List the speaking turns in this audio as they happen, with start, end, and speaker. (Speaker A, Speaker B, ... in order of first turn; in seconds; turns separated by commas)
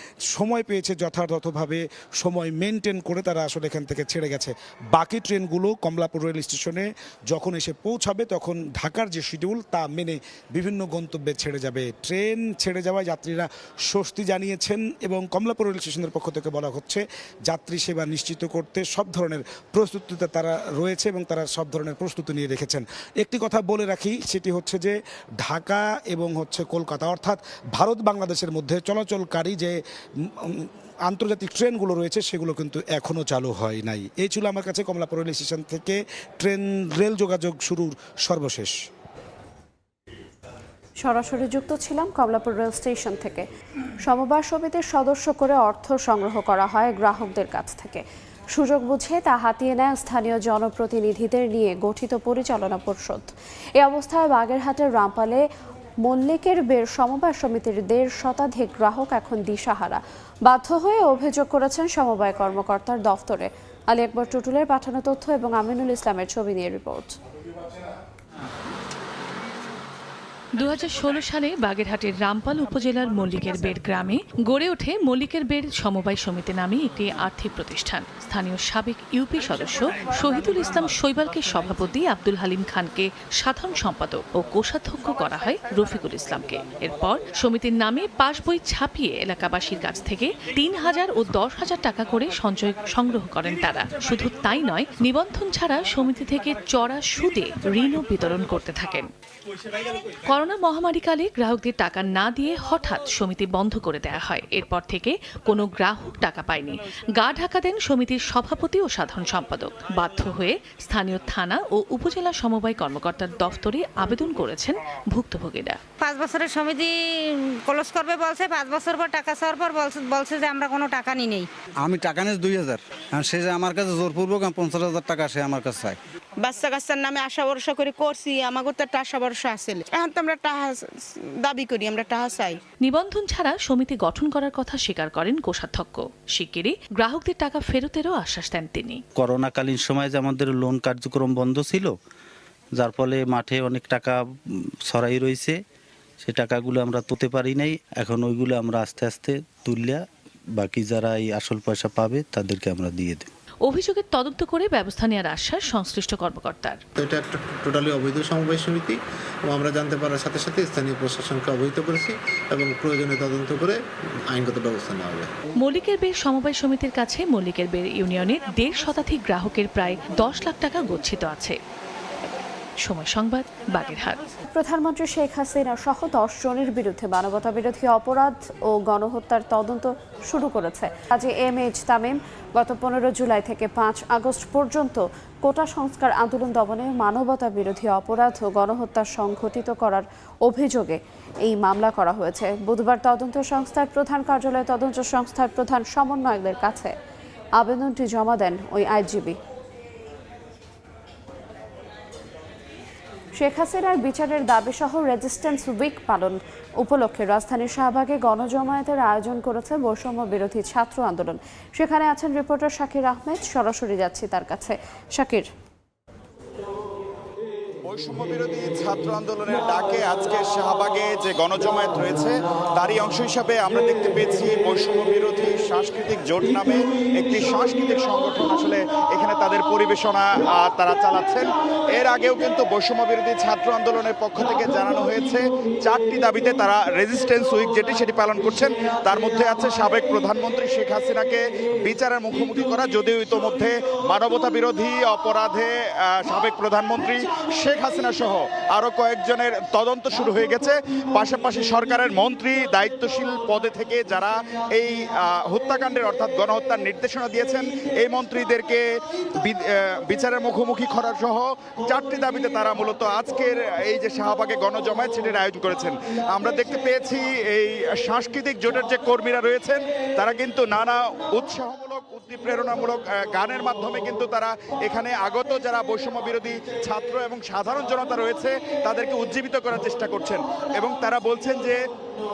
Speaker A: 0.3-38.7, Speaker B: 41.0-43.5, Speaker B: 44.0-55.4, Speaker B: 56.0-67.2, Speaker C: 70.6-99.1, Speaker C: 100.3-115.8, Speaker D: 116.1-116.9, Speaker D: 117.7-121.4, Speaker E: 121.8-126.0, Speaker F: 126.4-132.6, Speaker C: 132.8-139.0, Speaker G: 139.2-141.9, Speaker G: 142.8-144.1, Speaker G: 144.9-145.6, Speaker G: 146.2-150.0, Speaker G: 150.6-153.3, Speaker C: 153.7-156.8, Speaker H: 157.0-163.8, Speaker H: 164.3-165.3, Speaker C: 165.6-171.6, Speaker C: 172.8-174.2, Speaker B: 174.5-196.9, Speaker B: 197.6-199.3, Speaker B: 203.4-215.5, Speaker I: 217.8-258.9, Speaker I: 259.4-281.8